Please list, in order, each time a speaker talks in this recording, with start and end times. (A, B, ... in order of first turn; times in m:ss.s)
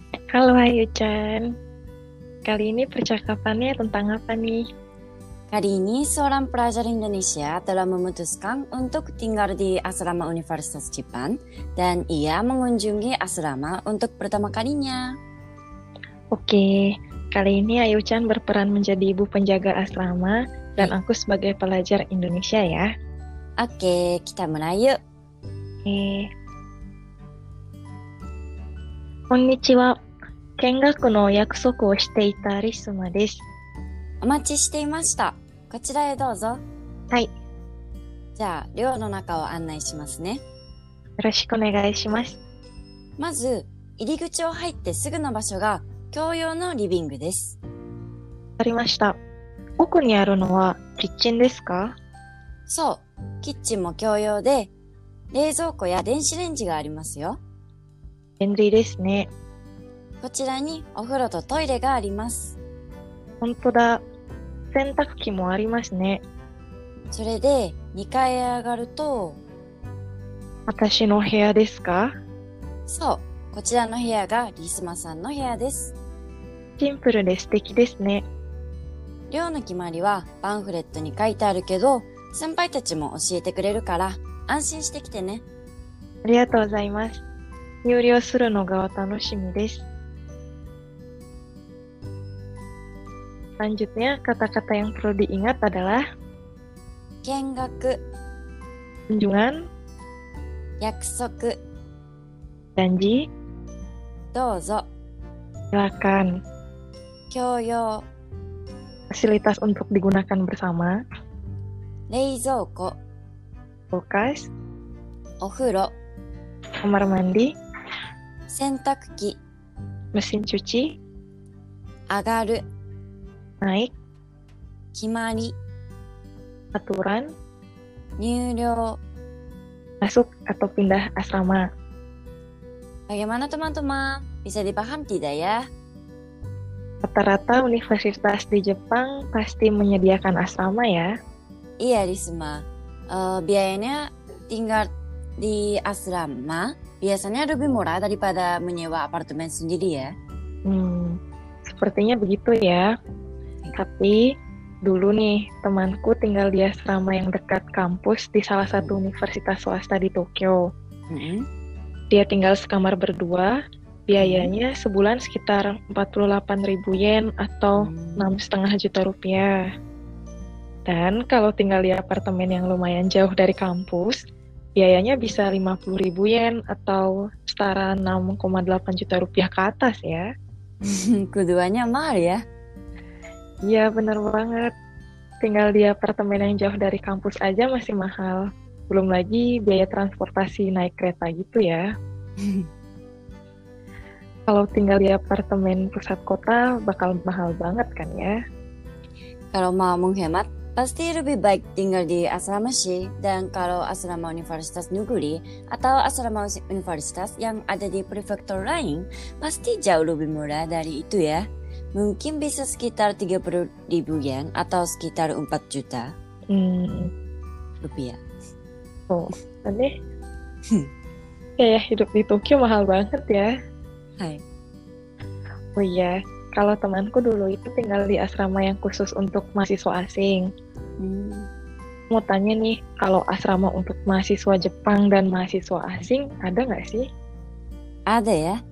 0:00.3-0:01.5 A
0:02.4-0:04.6 A
0:05.5-0:15.1 B
0:16.3-0:22.9 A
0:23.6-0:25.0 B
0:25.8-0:26.3 A
0:29.3-0:30.0 A
0:30.6-0:33.4 A
0:34.2-0:36.6 B
0:38.4-0:40.4 B
0:41.2-0:42.4 A
0:43.2-0:47.6 B
0:48.6-0:49.2 A
0:49.8-0:51.9 A
0:52.7-0:54.7 B
0:55.3-0:57.4 B
0:58.4-0:59.3 A
1:00.2-1:02.6 B
1:03.4-1:04.0 A
1:04.7-1:06.2 A
1:07.1-1:09.4 B
1:10.7-1:12.1 A
1:12.9-1:15.9 B
1:16.8-1:18.2 A
1:19.3-1:25.4 B
1:26.2-1:27.2 A
1:27.8-1:29.9 A
1:33.6-1:36.0 A
1:37.2-1:38.0 B
1:39.1-1:39.6 A
1:40.8-1:41.6 B
1:42.8-1:43.3 A
1:44.3-1:44.9 B
1:45.7-1:46.3 A
1:47.3-1:48.0 B
1:49.1-1:51.0 A
1:52.1-1:53.0 B
1:53.9-1:54.5 A
1:55.4-1:55.9 B
1:56.8-1:57.5 A
1:58.5-1:59.4 B
2:00.1-2:01.0 A
2:02.1-2:02.6 B
2:03.6-2:03.9 A
2:04.9-2:05.6 B
2:06.7-2:07.3 A
2:08.2-2:09.0 B
2:10.0-2:11.6 A
2:13.1-2:15.6 B
2:17.0-2:21.1 A
2:21.8-2:30.1 B
2:30.6-2:32.9 A
2:33.8-2:34.2 A
2:34.8-2:40.7 A
2:41.1-2:41.4 B
2:42.1-2:43.5 A
2:44.1-2:49.5 A
2:44.2-2:44.5 B
2:47.8-2:48.3 B
2:50.9-2:54.2 A
2:54.8-3:00.2 A
3:00.8-3:02.4 B
3:03.7-3:04.7 A
3:05.4-3:11.8 A
3:12.4-3:12.7 B
3:14.5-3:18.4 A
3:19.5-3:31.4 B
3:31.9-3:36.1 B
3:36.5-3:37.1 A
3:37.8-3:38.2 B
3:39.1-3:39.9 A
3:41.6-3:43.5 A
3:45.8-3:50.4 A
3:51.0-3:51.5 B
3:52.1-3:57.0 A
3:58.1-3:58.5 B